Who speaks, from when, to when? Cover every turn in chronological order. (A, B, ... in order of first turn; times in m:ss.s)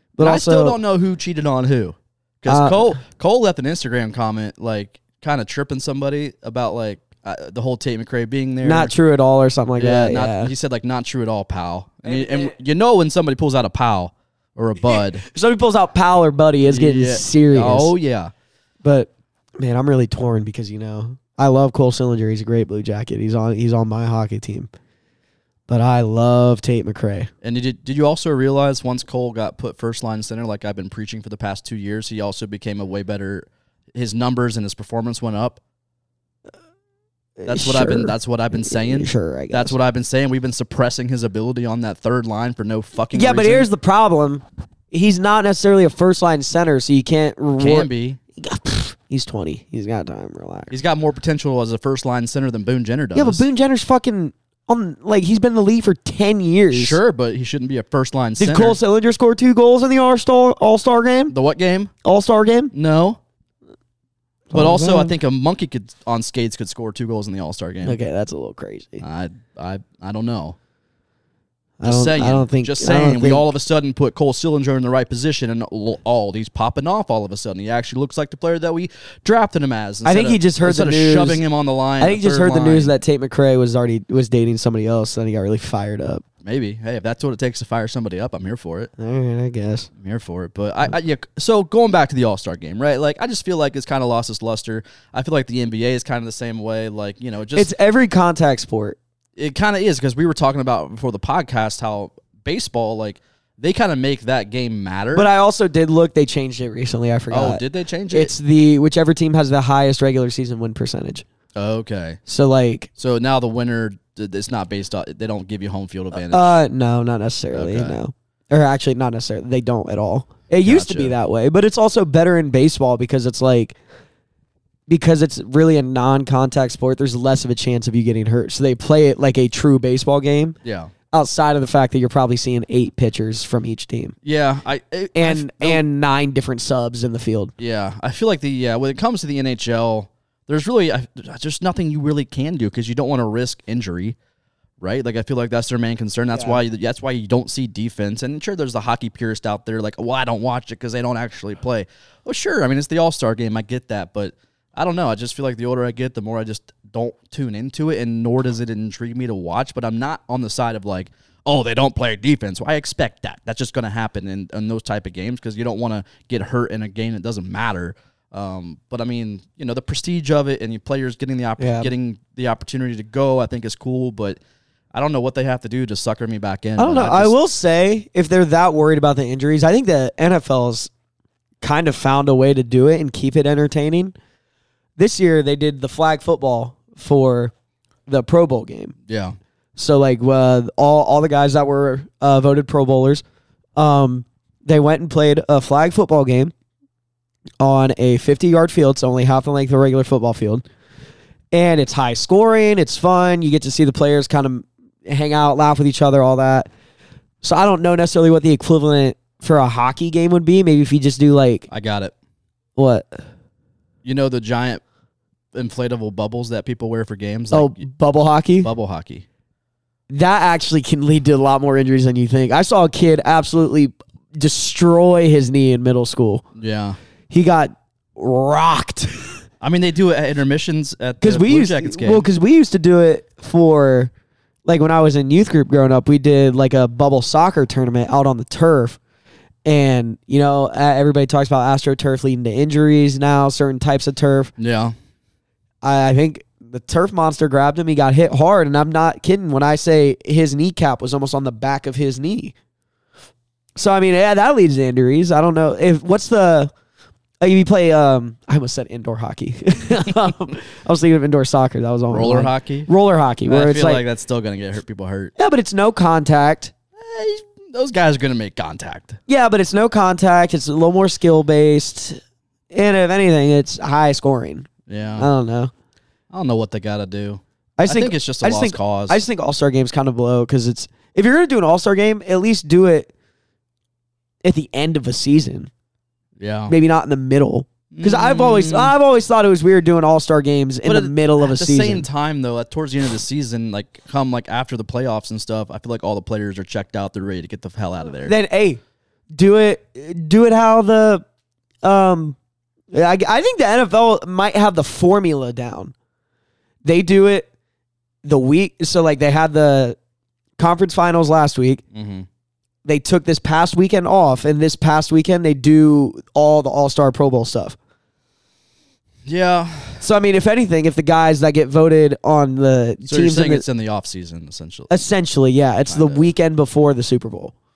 0:00.2-0:00.8 A
0:00.2-0:08.9 B
0:02.5-0:03.0 A
0:08.6-0:10.5 A
0:09.8-0:15.2 B
0:12.0-0:12.5 A
0:14.9-0:17.9 A
0:16.7-0:18.3 B
0:18.8-0:24.7 A
0:25.7-0:27.3 A
0:27.4-0:35.6 B
0:37.4-0:39.8 A
0:37.4-0:43.6 B
0:43.1-0:50.7 A
0:47.6-0:48.2 B
0:50.7-0:53.4 B
0:53.1-0:57.0 A
0:56.7-0:58.8 B
0:58.4-1:01.3 A
1:01.3-1:01.9 B
1:02.0-1:02.7 A
1:02.7-1:03.2 B
1:04.5-1:05.1 A
1:04.5-1:08.0 B
1:07.8-1:09.0 A
1:09.0-1:10.6 B
1:11.8-1:13.5 A
1:11.8-1:22.9 B
1:20.0-1:21.4 A
1:22.0-1:26.2 A
1:26.4-1:28.9 B
1:29.0-1:29.9 A
1:30.0-1:37.7 B
1:37.6-1:39.0 A
1:39.4-1:45.3 B
1:45.1-1:51.2 A
1:47.3-1:48.4 B
1:51.6-1:52.2 B
1:52.3-1:52.9 A
1:53.0-1:56.6 B
1:56.3-2:03.8 A
1:57.5-1:58.0 B
2:00.6-2:01.1 B
2:04.9-2:10.6 A
2:10.6-2:10.9 B
2:11.1-2:14.2 A
2:14.2-2:15.8 B
2:15.1-2:17.5 A
2:17.6-2:24.2 B
2:24.8-2:54.4 B
2:26.3-2:26.6 A
2:51.6-2:51.9 A
2:54.9-2:57.3 B
2:56.8-3:00.9 A
3:01.6-3:04.1 A
3:05.0-3:07.5 A
3:08.1-3:08.9 A
3:09.1-3:09.4 B
3:09.8-3:13.2 A
3:13.8-3:16.5 A
3:17.6-3:20.6 A
3:21.5-3:26.7 A
3:27.4-3:31.7 A
3:31.7-3:32.1 B
3:32.8-3:33.2 A
3:34.0-3:34.8 B
3:35.5-3:37.8 B
3:37.5-3:38.7 A
3:38.6-3:39.2 B
3:40.1-3:46.4 A
3:46.6-3:47.0 B
3:47.3-3:49.3 A
3:49.6-3:52.3 B
3:51.2-3:54.1 A
3:54.6-3:59.0 A
3:59.6-4:04.5 A
4:04.6-4:04.9 B
4:05.8-4:12.5 A
4:13.8-4:16.7 A
4:17.4-4:24.0 A
4:22.1-4:22.9 B
4:23.4-4:25.3 B
4:25.4-4:26.7 A
4:27.0-4:29.2 B
4:29.3-4:35.7 A
4:34.9-4:35.3 B
4:36.3-4:39.2 B
4:37.8-4:43.1 A
4:44.4-4:45.7 A
4:46.4-4:46.7 B
4:46.7-4:52.1 A
4:47.9-4:48.9 B
4:50.8-4:58.3 B
4:58.2-4:58.8 A
4:59.3-5:01.2 A
5:01.8-5:02.4 A
5:02.9-5:05.9 A
5:06.8-5:07.5 A
5:08.2-5:10.0 A
5:10.6-5:11.8 A
5:11.9-5:12.2 B
5:12.8-5:17.8 A
5:19.2-5:20.0 B
5:20.0-5:23.6 A
5:23.1-5:25.0 B
5:24.9-5:27.5 A
5:25.9-5:26.3 B